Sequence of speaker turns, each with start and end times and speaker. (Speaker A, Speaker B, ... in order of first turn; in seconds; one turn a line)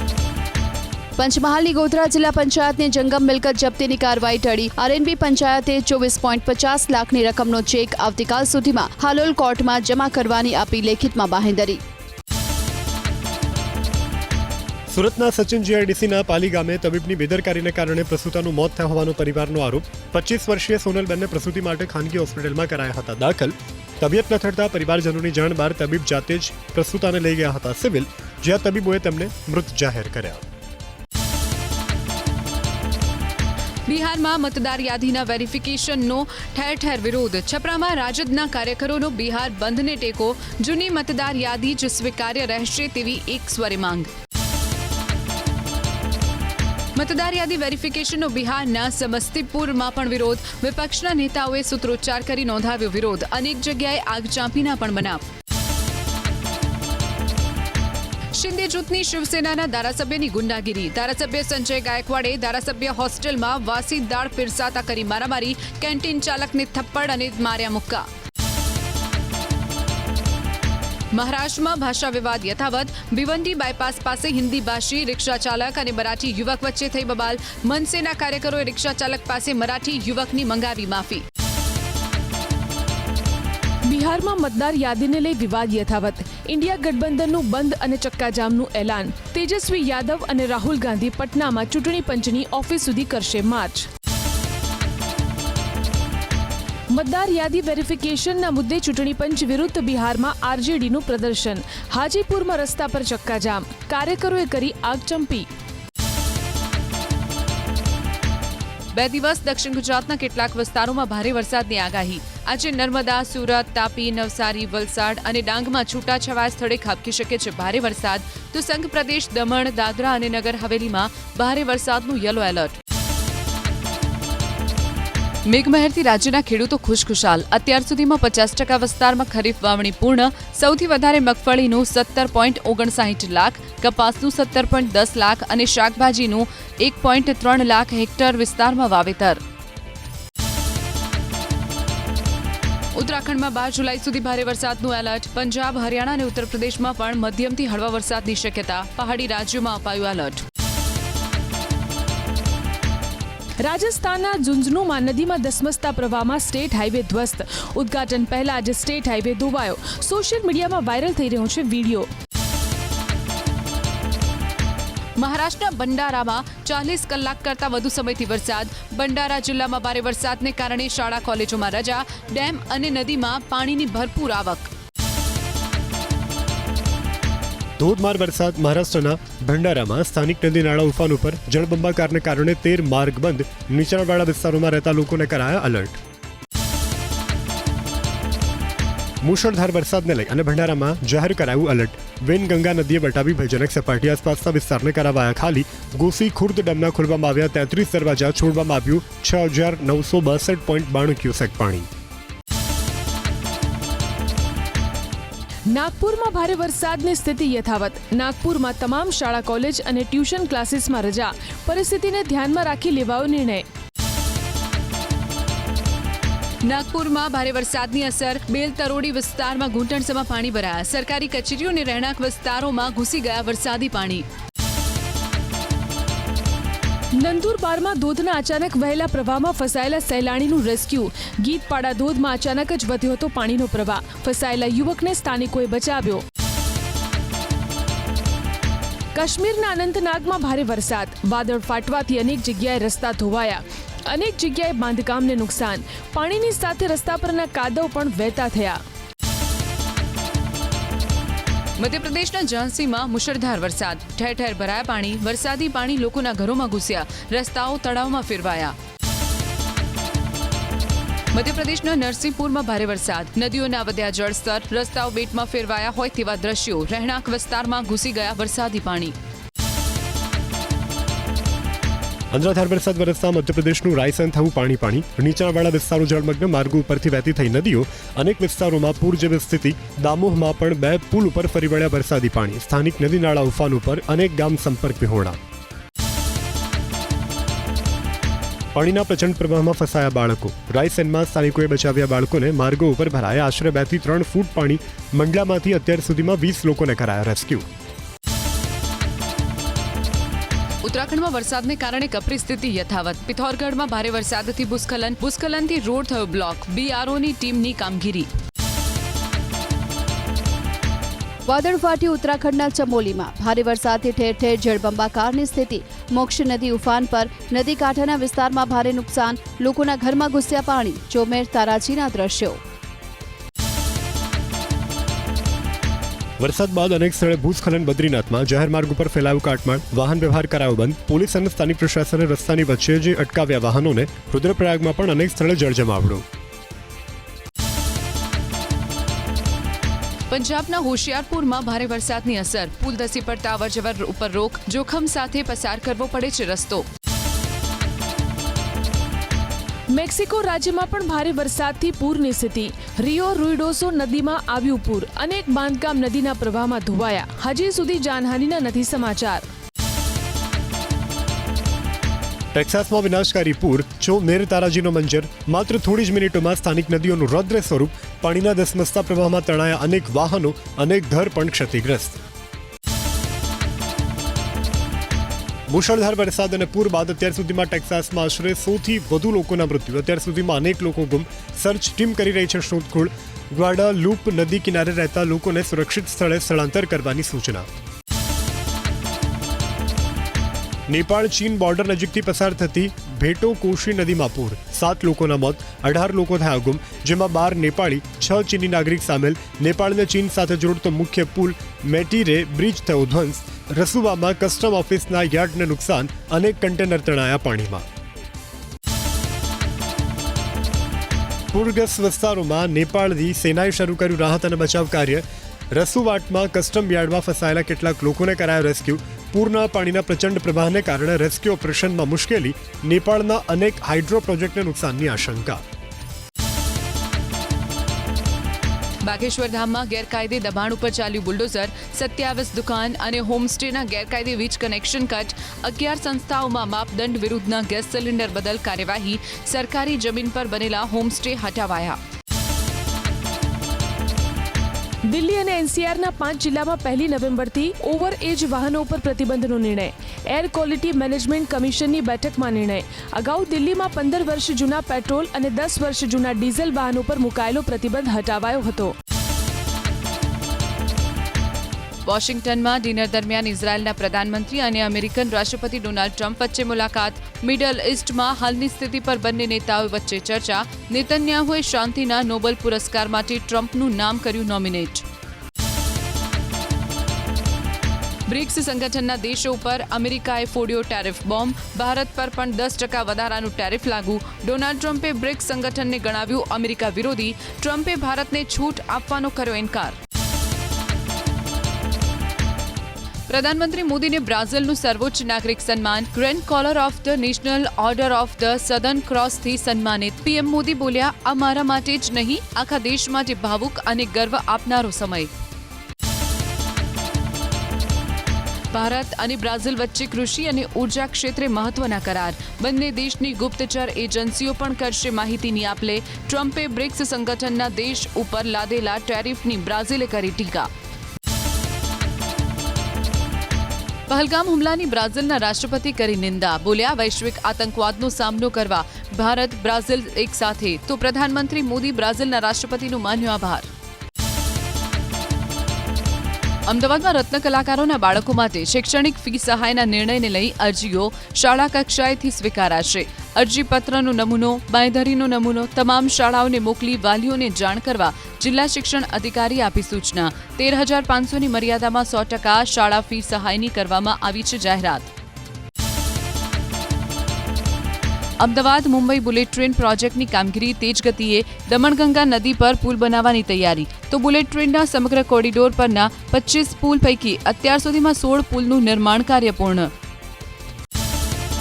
Speaker A: 1.2-11.8
Speaker B: 14.9-30.4
Speaker C: 33.9-44.1
Speaker C: 47.0-55.2
Speaker C: 58.3-68.1
Speaker C: 71.1-81.2
Speaker D: 83.9-93.9
Speaker D: 96.9-105.5
Speaker C: 108.9-122.8
Speaker C: 125.4-139.4
Speaker C: 142.9-150.4
Speaker D: 153.6-162.1
Speaker C: 165.2-174.7
Speaker B: 177.8-186.0
Speaker B: 189.2-201.9
Speaker D: 205.7-213.6
Speaker C: 216.6-224.2
Speaker D: 227.2-236.2
Speaker D: 239.1-248.8
Speaker C: 251.8-258.7
Speaker C: 261.3-269.1
Speaker B: 272.3-285.4
Speaker B: 288.7-297.7
Speaker C: 300.8-308.3
Speaker A: 311.5-322.6
Speaker B: 326.4-336.2
Speaker C: 340.3-346.9
Speaker D: 349.9-359.5
Speaker B: 362.5-372.2
Speaker B: 375.7-387.7
Speaker B: 390.9-407.9
Speaker B: 411.5-425.6
Speaker C: 429.0-442.0
Speaker D: 445.1-458.9
Speaker C: 462.1-475.0
Speaker C: 478.3-490.0
Speaker C: 493.3-505.3
Speaker C: 508.7-520.7
Speaker C: 524.1-533.7
Speaker C: 536.7-555.1
Speaker C: 558.4-569.9